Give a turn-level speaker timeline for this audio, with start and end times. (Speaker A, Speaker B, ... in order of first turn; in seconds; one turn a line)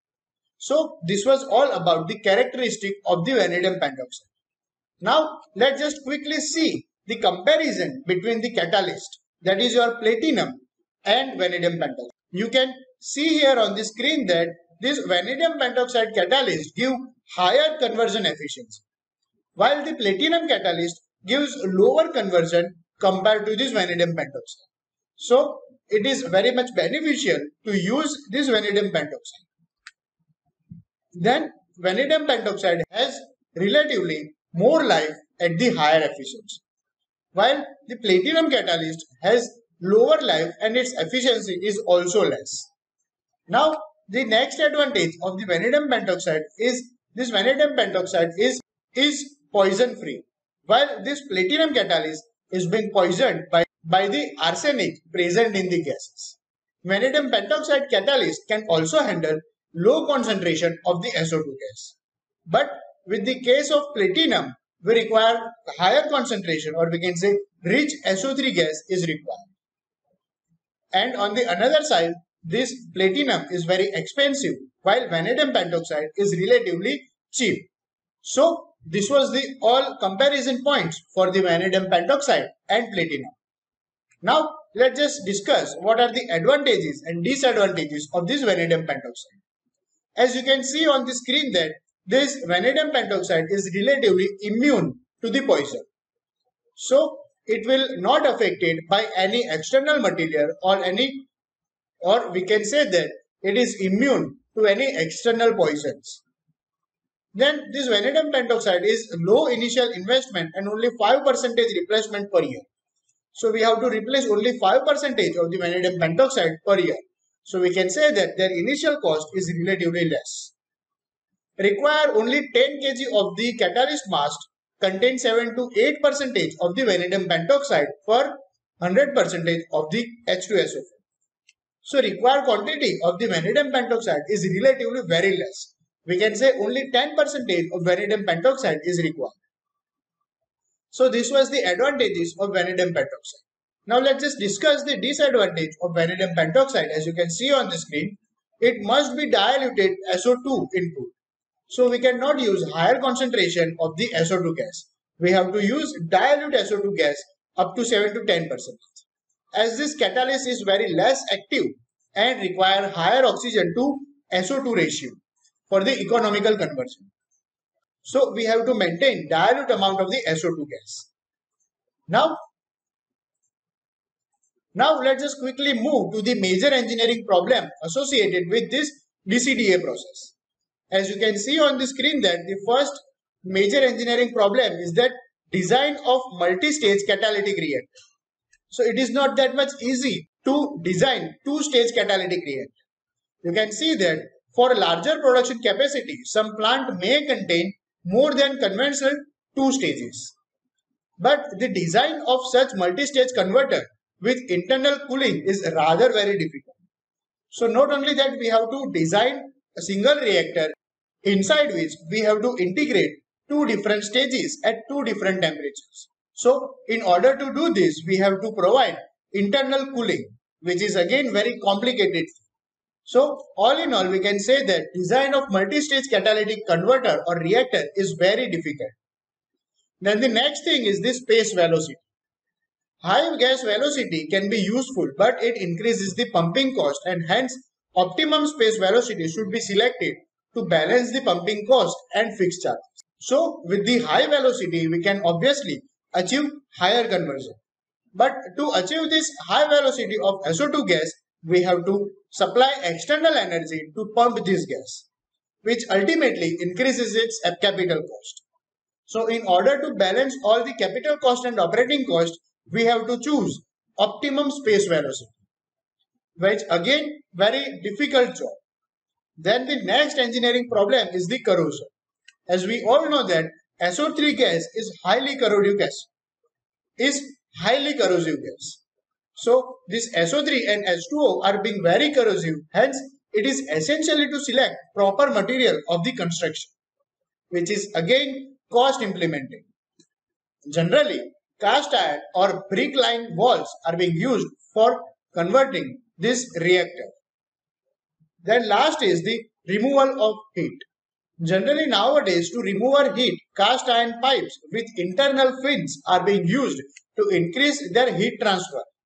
Speaker A: 0.6-4.3
Speaker A: 5.0-18.8
Speaker A: 19.6-29.4
Speaker A: 31.1-36.6
Speaker A: 37.3-42.7
Speaker A: 43.5-62.0
Speaker A: 62.5-69.5
Speaker A: 70.9-77.7
Speaker A: 78.2-83.4
Speaker A: 84.2-89.4
Speaker A: 90.2-95.9
Speaker A: 96.8-101.3
Speaker A: 102.0-106.2
Speaker A: 107.3-112.7
Speaker A: 113.3-120.5
Speaker A: 121.6-131.0
Speaker A: 131.8-139.4
Speaker A: 140.9-151.1
Speaker A: 151.7-167.1
Speaker A: 168.0-171.1
Speaker A: 172.1-172.4
Speaker A: 174.7-180.3
Speaker A: 180.9-187.9
Speaker A: 188.7-192.8
Speaker A: 193.4-200.3
Speaker A: 201.2-206.8
Speaker A: 207.5-222.4
Speaker A: 223.0-229.0
Speaker A: 230.0-232.0
Speaker A: 233.0-247.6
Speaker A: 248.1-255.1
Speaker A: 255.6-258.4
Speaker A: 259.1-265.4
Speaker A: 266.4-268.6
Speaker A: 269.4-271.9
Speaker A: 272.5-276.1
Speaker A: 277.0-278.8
Speaker A: 279.3-286.7
Speaker A: 287.5-289.7
Speaker A: 290.7-297.1
Speaker A: 298.4-300.9
Speaker A: 301.4-308.9